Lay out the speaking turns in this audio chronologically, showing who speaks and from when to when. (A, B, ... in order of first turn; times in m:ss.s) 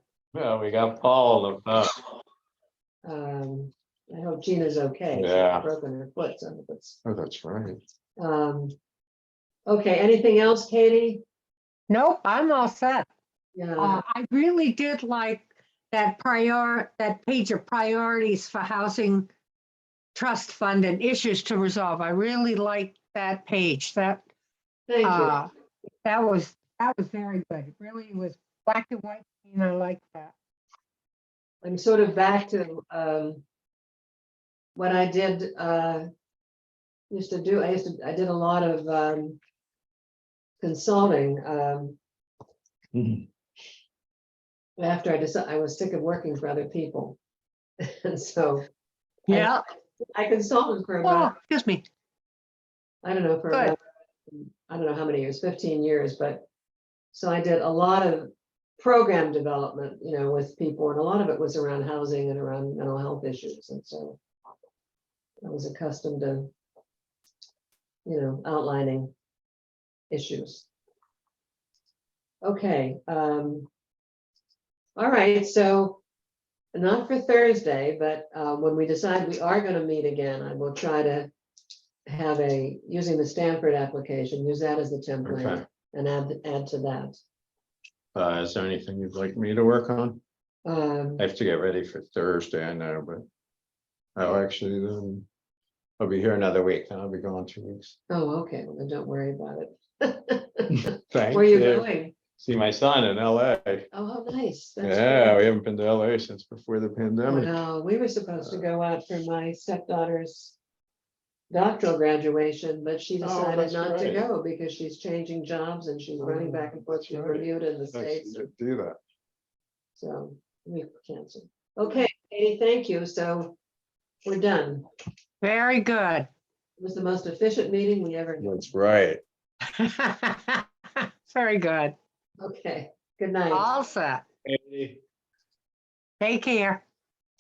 0:00.3-0:02.0 A
0:03.0-0:07.0 B
0:05.1-0:05.7 A
0:07.0-0:07.8 A
0:08.2-0:08.8 B
0:09.7-0:11.2 B
0:11.9-0:13.1 C
0:13.6-0:14.0 B
0:13.8-0:19.3 C
0:20.2-0:24.2 C
0:24.9-0:25.4 B
0:25.0-0:25.5 C
0:26.0-0:30.3 C
0:31.6-0:33.4 B
0:34.8-0:36.1 B
0:37.1-0:39.4 B
0:40.6-0:42.0 B
0:43.0-0:43.3 A
0:44.8-0:47.2 B
0:47.8-0:48.7 B
0:49.3-0:49.6 C
0:49.3-0:49.6 B
0:50.1-0:51.3 B
0:51.0-0:51.8 C
0:53.0-0:56.5 B
0:57.1-1:04.2 B
1:05.4-1:06.5 B
1:08.1-1:09.1 B
1:10.1-1:10.7 B
1:12.4-1:13.7 B
1:15.0-1:16.0 B
1:16.7-1:21.3 B
1:22.1-1:27.2 B
1:25.2-1:25.7 A
1:28.2-1:30.2 A
1:30.6-1:31.2 B
1:31.2-1:33.3 A
1:34.2-1:35.3 A
1:36.0-1:38.0 A
1:38.1-1:42.2 B
1:41.1-1:43.9 A
1:43.9-1:45.4 B
1:44.8-1:47.5 A
1:47.3-1:50.6 B
1:48.4-1:48.7 A
1:51.5-1:58.5 B
1:53.2-1:54.2 A
1:56.2-1:59.0 A
2:00.0-2:03.6 B
2:04.2-2:04.9 B
2:05.4-2:06.3 C
2:06.8-2:08.7 B
2:08.4-2:09.2 A
2:09.8-2:12.0 C
2:12.4-2:13.7 B
2:13.5-2:14.2 C
2:14.5-2:15.0 A
2:16.2-2:16.8 C